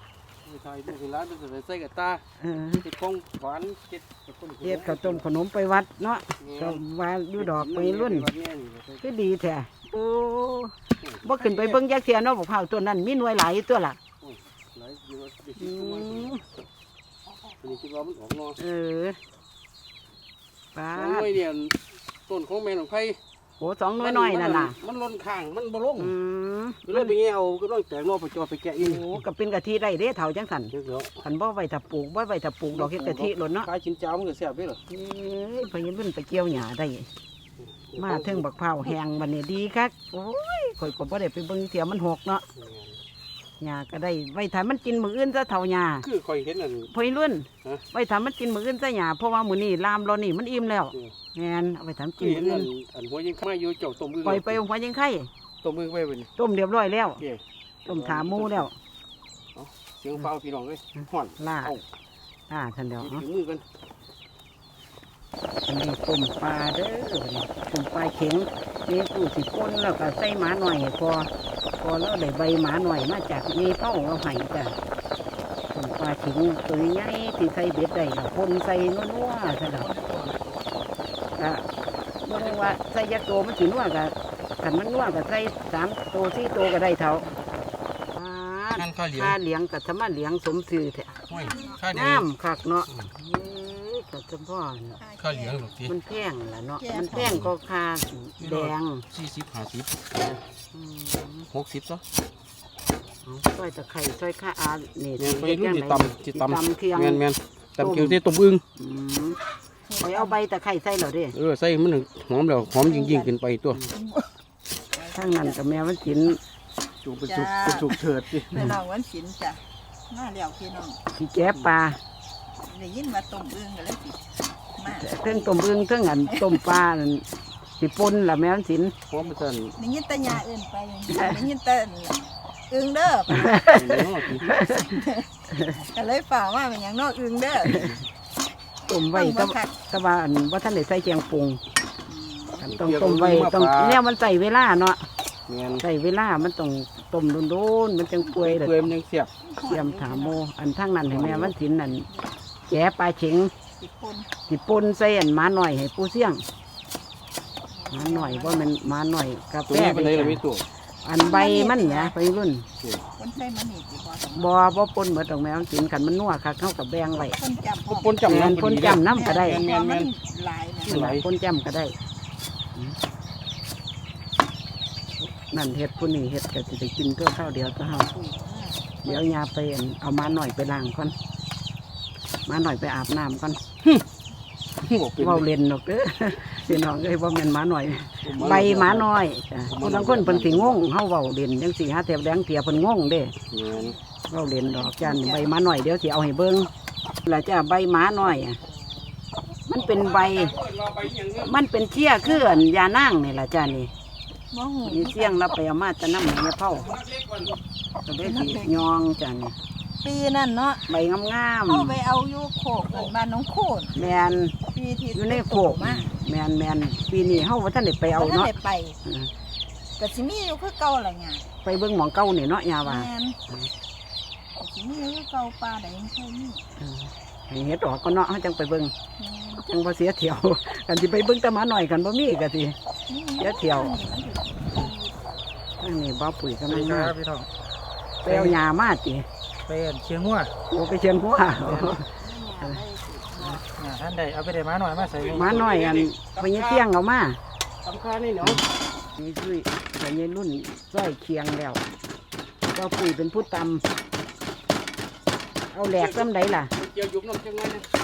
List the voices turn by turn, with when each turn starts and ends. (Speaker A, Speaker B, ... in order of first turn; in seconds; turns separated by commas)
Speaker A: 0.4-2.2, Speaker B: 2.4-2.8, Speaker A: 2.8-5.2, Speaker B: 4.6-8.3, Speaker A: 6.4-6.8, Speaker A: 7.4-9.0, Speaker B: 9.0-10.7, Speaker A: 11.0-11.8, Speaker B: 11.2-14.0, Speaker A: 14.2-16.4, Speaker B: 15.6-16.4, Speaker A: 17.6-18.6, Speaker B: 18.6-19.2, Speaker B: 20.7-21.4, Speaker A: 20.9-21.7, Speaker A: 22.3-23.2, Speaker B: 23.6-24.7, Speaker A: 24.0-26.1, Speaker B: 26.0-27.1, Speaker A: 26.9-29.2, Speaker B: 28.8-33.7, Speaker A: 30.7-31.2, Speaker A: 32.7-34.8, Speaker B: 34.9-37.1, Speaker A: 37.6-38.9, Speaker B: 38.0-42.4, Speaker A: 42.5-43.0, Speaker B: 43.6-46.1, Speaker A: 46.0-46.9, Speaker B: 46.9-52.7, Speaker A: 52.2-54.6, Speaker B: 54.2-55.3, Speaker A: 55.6-56.3, Speaker B: 56.4-57.2, Speaker A: 57.2-58.7, Speaker B: 57.8-58.7, Speaker A: 59.5-61.8, Speaker B: 61.0-61.8, Speaker B: 62.5-63.2, Speaker A: 63.0-63.6, Speaker B: 65.7-74.8, Speaker B: 75.7-79.9, Speaker A: 79.7-80.7, Speaker B: 81.4-81.6, Speaker B: 82.2-87.2, Speaker A: 82.3-82.8, Speaker B: 88.1-91.2, Speaker A: 88.8-89.4, Speaker A: 91.3-92.3, Speaker C: 91.3-91.8, Speaker B: 91.9-95.0, Speaker C: 95.0-95.7, Speaker A: 95.2-95.9, Speaker B: 95.9-99.0, Speaker C: 96.8-97.4, Speaker A: 97.1-97.5, Speaker A: 98.4-100.4, Speaker B: 100.7-101.5, Speaker A: 101.5-102.0, Speaker B: 103.2-107.2, Speaker A: 105.2-108.6, Speaker B: 107.8-108.2, Speaker B: 108.8-109.4, Speaker C: 109.9-110.4, Speaker B: 110.0-111.3, Speaker A: 111.3-113.8, Speaker C: 112.7-113.3, Speaker C: 113.9-114.3, Speaker C: 114.9-115.6, Speaker B: 115.1-116.4, Speaker A: 117.0-118.7, Speaker C: 117.2-121.0, Speaker B: 121.2-122.0, Speaker C: 122.6-125.6, Speaker B: 124.9-127.2, Speaker C: 126.2-126.8, Speaker B: 127.8-128.9, Speaker A: 129.1-129.8, Speaker C: 129.8-133.7, Speaker B: 131.1-131.4, Speaker B: 133.3-134.9, Speaker A: 133.4-134.6, Speaker C: 134.6-135.3, Speaker B: 135.5-135.8, Speaker C: 135.9-137.9, Speaker A: 137.7-138.0, Speaker B: 138.9-141.6, Speaker C: 139.0-139.8, Speaker C: 142.1-142.7, Speaker B: 142.6-145.1, Speaker A: 142.6-144.0, Speaker A: 145.5-145.8, Speaker B: 145.8-148.9, Speaker A: 148.3-149.3, Speaker C: 149.4-150.4, Speaker B: 149.7-152.1, Speaker A: 151.1-151.5, Speaker B: 152.7-153.5, Speaker C: 153.8-154.3, Speaker B: 154.5-156.4, Speaker C: 157.7-158.7, Speaker B: 157.9-160.4, Speaker A: 159.7-160.6, Speaker B: 161.0-162.7, Speaker C: 161.2-162.1, Speaker C: 163.1-164.6, Speaker B: 164.3-167.4, Speaker C: 167.3-168.3, Speaker A: 167.9-170.1, Speaker B: 168.3-169.6, Speaker C: 169.0-171.1, Speaker B: 170.8-172.0, Speaker A: 170.9-171.2, Speaker B: 175.2-178.1, Speaker C: 177.8-179.2, Speaker B: 179.0-181.1, Speaker B: 182.5-183.6, Speaker A: 184.8-185.5, Speaker B: 185.2-193.3, Speaker A: 188.2-189.1, Speaker A: 189.7-190.8, Speaker A: 193.5-193.9, Speaker C: 193.7-194.0, Speaker B: 194.3-196.7, Speaker C: 194.6-195.5, Speaker B: 197.2-198.6, Speaker B: 199.7-200.6, Speaker A: 199.8-201.5, Speaker B: 201.4-203.9, Speaker C: 202.2-202.7, Speaker C: 204.5-205.5, Speaker B: 204.8-206.9, Speaker A: 206.7-207.6, Speaker B: 208.1-209.6, Speaker C: 208.2-208.9, Speaker C: 210.0-211.0, Speaker B: 210.9-212.0, Speaker C: 211.7-214.1, Speaker B: 213.9-214.6, Speaker C: 214.7-216.1, Speaker B: 215.1-218.5, Speaker C: 217.2-217.4, Speaker C: 218.0-219.0, Speaker B: 219.1-219.3, Speaker C: 220.0-221.4, Speaker B: 221.6-223.7, Speaker C: 222.8-223.4, Speaker C: 224.6-226.6, Speaker B: 226.8-228.9, Speaker C: 229.2-229.6, Speaker B: 229.6-232.8, Speaker C: 233.1-235.2, Speaker B: 233.4-233.9, Speaker B: 235.8-237.1, Speaker D: 236.7-237.5, Speaker B: 238.2-239.3, Speaker D: 238.2-238.6, Speaker D: 239.7-240.5, Speaker B: 240.7-242.8, Speaker A: 241.6-241.9, Speaker C: 242.2-243.6, Speaker D: 243.4-245.6, Speaker A: 244.9-246.9, Speaker B: 245.3-247.4, Speaker A: 247.8-248.6, Speaker B: 249.1-251.8, Speaker B: 252.7-253.8, Speaker B: 255.7-256.7, Speaker A: 255.9-257.9